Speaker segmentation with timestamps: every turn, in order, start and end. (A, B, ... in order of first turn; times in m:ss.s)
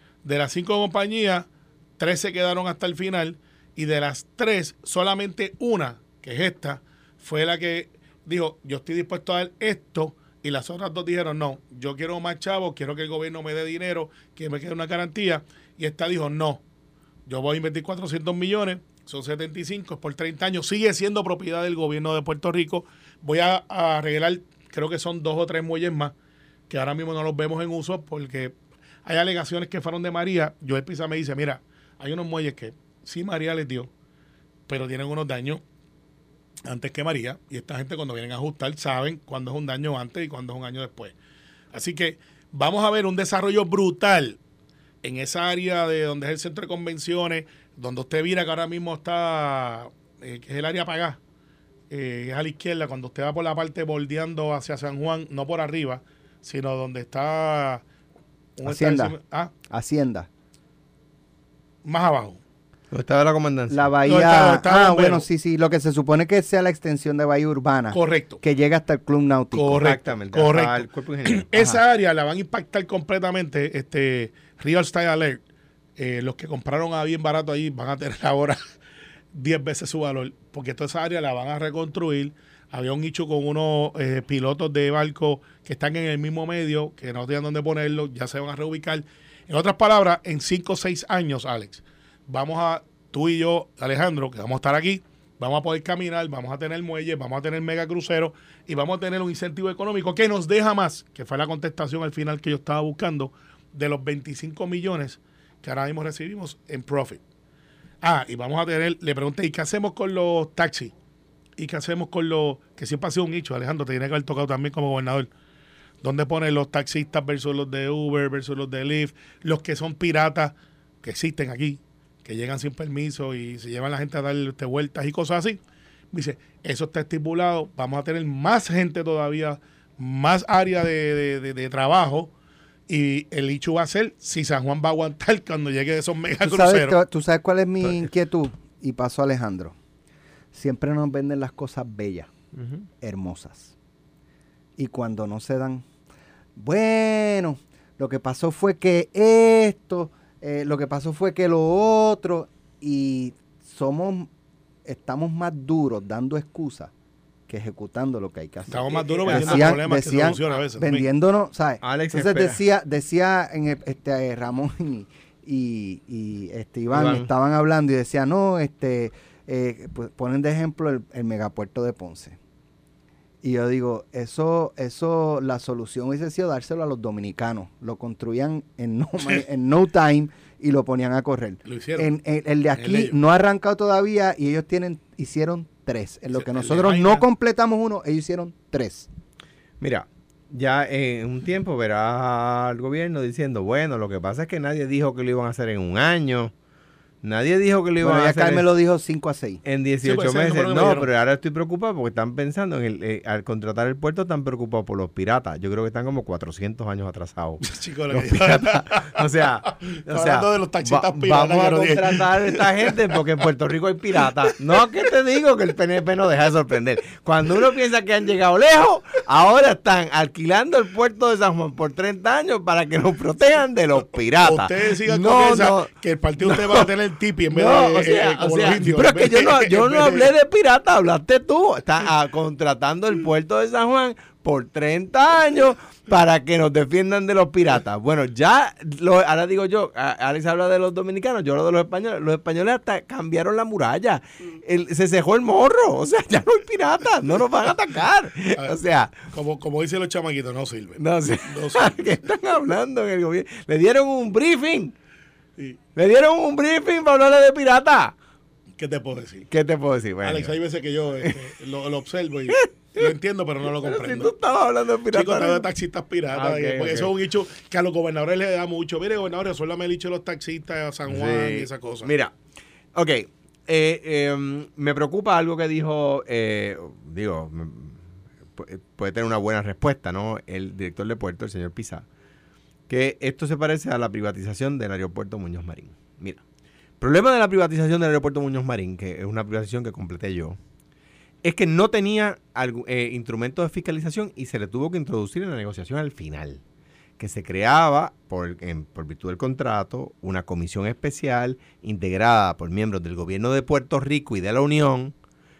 0:00.2-0:16.6 A
0:17.3-0:26.1 A
0:26.7-0:33.9 A
0:34.7-0:35.6 A
0:36.6-0:41.1 A
0:41.7-0:44.4 A
0:45.0-0:51.2 A
0:51.9-0:57.8 A
0:58.6-0:59.5 A
0:58.6-0:59.1 B
0:59.7-1:00.3 B
1:01.8-1:02.4 A
1:02.9-1:03.9 C
1:03.7-1:10.0 B
1:04.0-1:05.2 A
1:07.9-1:08.4 A
1:09.5-1:15.4 A
1:09.8-1:11.4 C
1:16.0-1:18.6 A
1:19.3-1:47.2 A
1:48.0-1:50.9 A
1:51.6-1:55.3 A
1:56.0-2:05.6 A
2:06.1-2:12.3 A
2:12.9-2:16.9 A
2:16.4-2:19.7 B
2:20.5-2:22.3 B
2:23.0-2:23.7 B
2:24.8-2:25.8 B
2:26.6-2:34.3 B
2:34.8-2:36.9 B
2:37.5-2:52.4 B
2:38.7-2:41.0 A
2:39.2-2:39.7 C
2:41.8-2:42.6 C
2:46.9-2:47.3 C
2:53.4-3:09.1 B
3:01.6-3:02.1 A
3:02.8-3:03.1 A
3:06.3-3:07.2 A
3:09.8-3:16.5 C
3:17.2-3:18.7 C
3:18.0-3:19.6 B
3:19.6-3:45.9 C
3:20.0-3:21.1 A
3:27.6-3:33.2 A
3:34.5-3:34.8 A
3:44.4-3:50.3 A
3:46.4-3:46.9 C
3:47.5-4:09.2 C
4:09.3-4:12.0 A
4:11.0-4:14.9 C
4:15.9-4:18.1 C
4:18.8-4:19.5 A
4:19.5-4:20.5 C
4:20.2-4:24.3 A
4:21.2-4:21.5 C
4:22.5-4:23.1 C
4:23.7-4:25.6 C
4:25.1-4:32.1 A
4:26.3-4:27.1 C
4:31.1-4:32.3 C
4:32.9-4:38.0 C
4:38.6-4:42.0 C
4:42.9-4:46.4 C
4:47.0-4:50.6 C
4:51.4-4:56.6 C
4:57.2-5:05.1 C